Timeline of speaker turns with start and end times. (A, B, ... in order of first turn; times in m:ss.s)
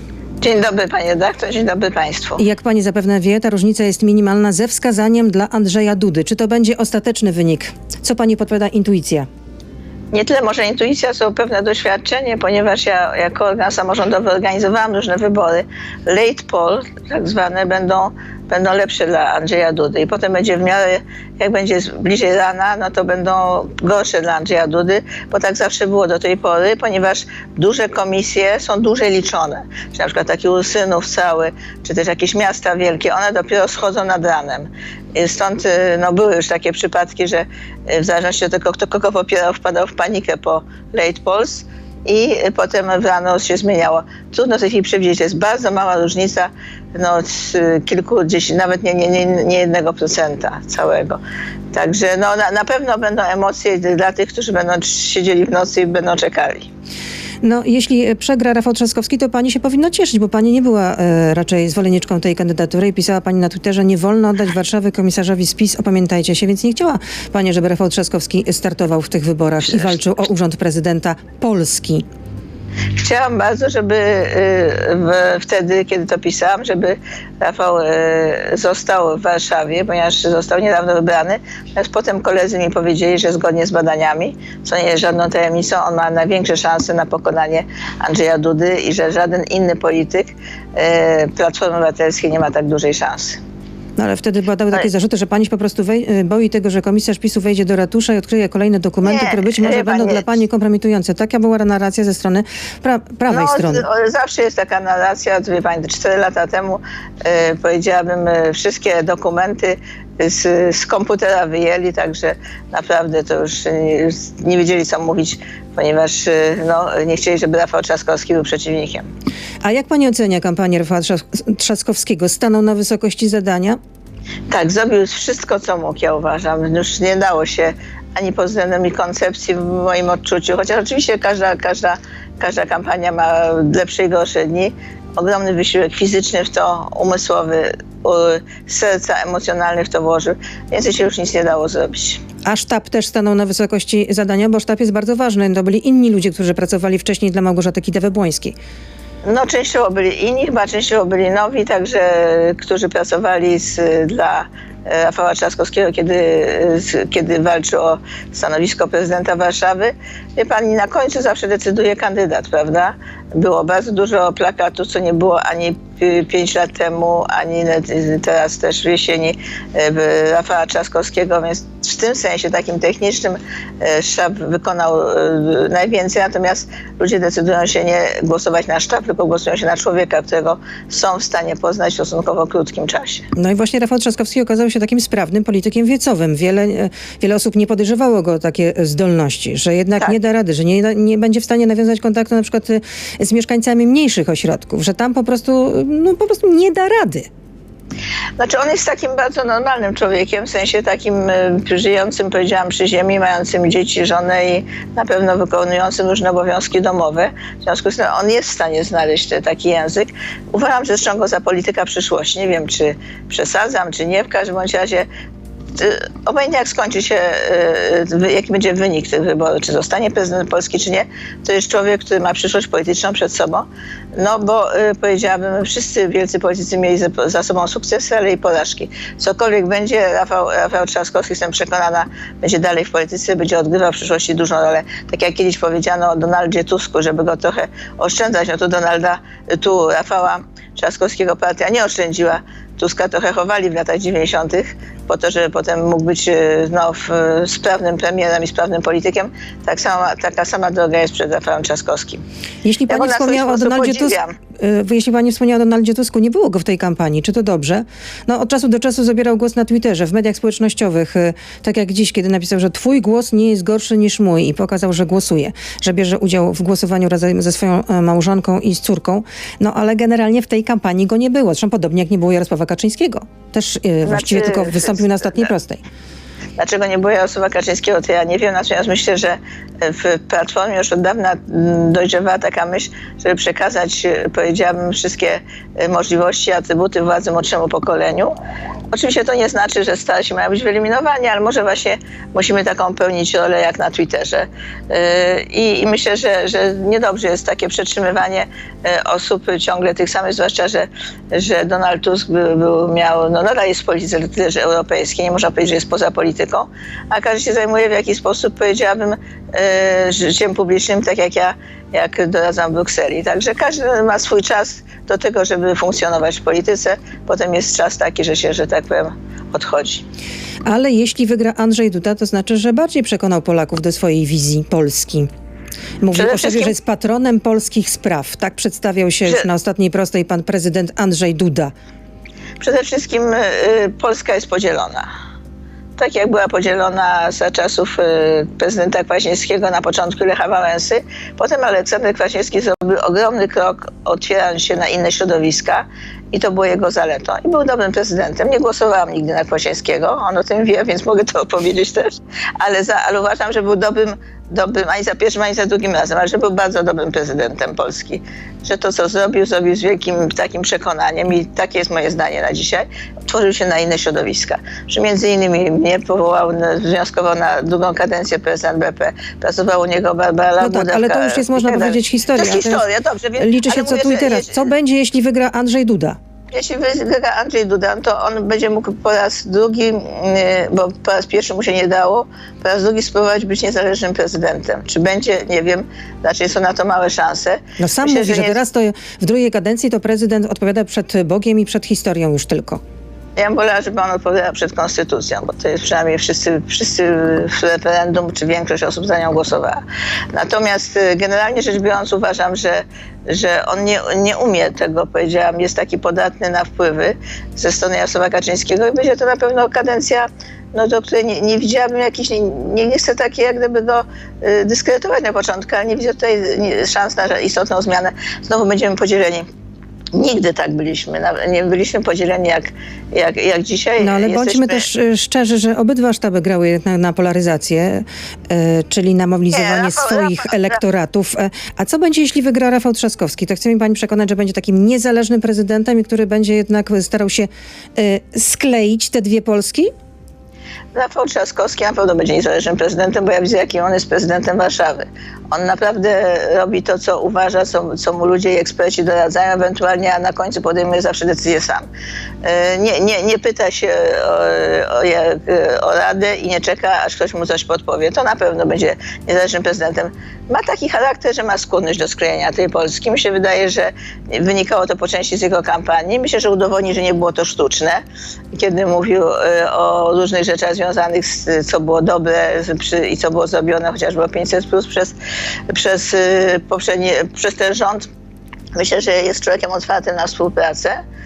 0:00.4-0:02.4 A
0:02.4-0:09.3 B
0:10.1-0:51.2 A
0:51.7-0:56.7 A
0:57.4-1:12.0 B
1:13.0-1:33.4 A
1:34.0-1:43.8 B
1:39.0-1:40.3 A
1:43.3-1:59.1 A
1:59.6-2:03.8 B
2:04.5-2:22.2 A
2:22.4-2:28.6 B
2:29.2-3:03.3 A
3:03.4-3:17.3 B
3:18.4-3:35.1 A
3:35.8-4:12.2 A
4:12.6-4:35.8 B
4:12.9-4:14.4 A
4:34.0-4:35.5 A
4:36.6-4:48.3 A
4:48.9-5:20.0 A
5:20.6-5:25.3 B
5:26.0-5:31.7 B
5:26.1-5:26.7 A
5:32.6-5:35.1 A
5:36.0-6:14.7 A
6:10.6-6:12.8 B
6:13.4-6:16.2 B
6:16.5-6:28.6 A
6:27.8-6:32.8 B
6:33.4-6:39.8 A
6:40.3-6:59.5 A
7:00.1-7:04.9 A
7:04.0-7:19.9 B
7:09.5-7:10.8 A
7:21.0-7:31.9 A
7:32.4-7:48.0 A
7:48.5-7:55.2 A
7:55.7-7:58.1 A
7:58.8-8:01.0 A